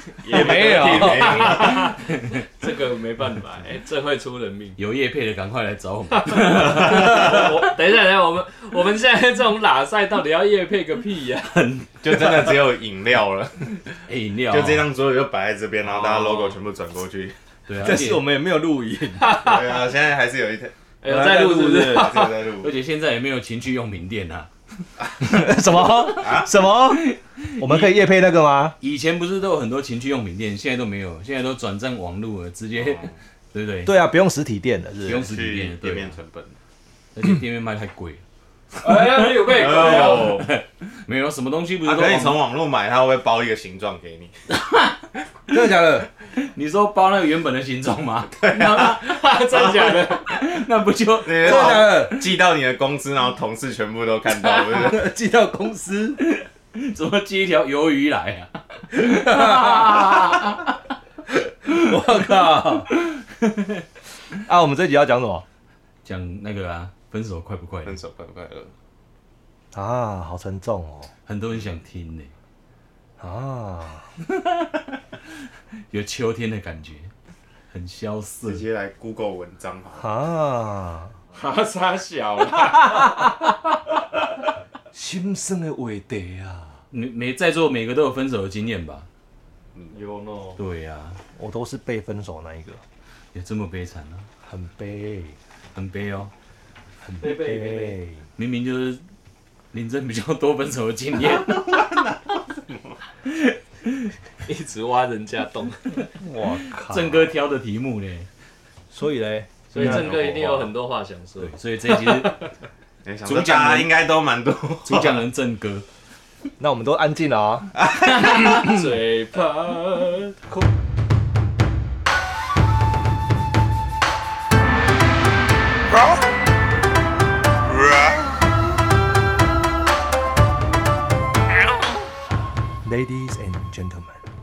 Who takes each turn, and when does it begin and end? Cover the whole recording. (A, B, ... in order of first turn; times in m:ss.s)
0:00.2-0:04.8 A
0:00.3-0:01.8 B
0:00.3-0:01.9 C
0:04.8-0:07.6 D
0:06.1-0:11.5 A
0:06.7-0:07.3 C
0:11.4-0:12.6 D
0:12.0-0:17.4 C
0:14.1-0:14.9 D
0:15.8-0:16.6 A
0:17.7-0:18.2 D
0:17.8-0:19.3 B
0:19.2-0:19.8 A
0:19.3-0:20.7 C
0:21.0-0:22.3 A
0:21.0-0:22.2 B
0:21.8-0:22.7 C
0:22.6-0:26.3 D
0:25.2-0:28.8 B
0:26.2-0:26.5 C
0:26.8-0:27.9 D
0:28.8-0:33.9 D
0:32.8-0:33.1 C
0:33.8-0:35.3 B
0:35.0-0:36.2 D
0:35.0-0:36.6 C
0:37.1-0:38.2 D
0:38.8-0:40.4 A
0:39.2-0:42.4 D
0:39.4-0:40.5 C
0:41.8-0:44.3 C
0:44.5-0:45.0 D
0:45.5-0:46.1 B
0:46.4-0:49.2 D
0:48.4-0:49.0 C
0:48.8-0:50.4 A
0:49.5-0:49.8 C
0:50.2-0:52.2 D
0:51.2-0:55.1 C
0:51.4-0:52.2 B
0:54.7-0:56.2 B
0:56.2-1:00.7 D
0:59.1-1:00.6 B
1:01.6-1:02.9 B
1:03.1-1:03.8 D
1:04.3-1:05.4 B
1:06.0-1:08.0 D
1:07.8-1:08.7 C
1:09.7-1:11.1 B
1:11.2-1:12.3 D
1:13.2-1:14.1 B
1:14.4-1:14.8 D
1:15.9-1:17.1 D
1:17.7-1:18.6 D
1:18.4-1:20.1 C
1:19.9-1:21.2 B
1:21.3-1:23.2 A
1:24.9-1:26.8 B
1:26.9-1:29.1 D
1:29.9-1:30.6 A
1:30.6-1:31.2 D
1:31.3-1:32.8 B
1:33.3-1:34.3 D
1:34.4-1:35.4 B
1:35.7-1:36.3 D
1:37.1-1:38.2 B
1:37.2-1:38.0 A
1:38.4-1:39.0 D
1:39.7-1:41.9 D
1:41.7-1:43.0 C
1:43.2-1:44.1 D
1:44.4-1:46.1 A
1:46.1-1:47.3 B
1:46.8-1:48.3 D
1:48.9-1:50.0 B
1:49.7-1:52.4 A
1:49.8-1:50.7 C
1:51.4-1:52.4 D
1:53.0-1:55.3 C
1:53.2-1:53.9 D
1:54.8-1:55.8 D
1:56.6-1:57.7 B
1:57.9-1:58.6 C
1:58.2-1:58.8 D
1:58.5-2:00.6 A
2:12.8-2:14.2 B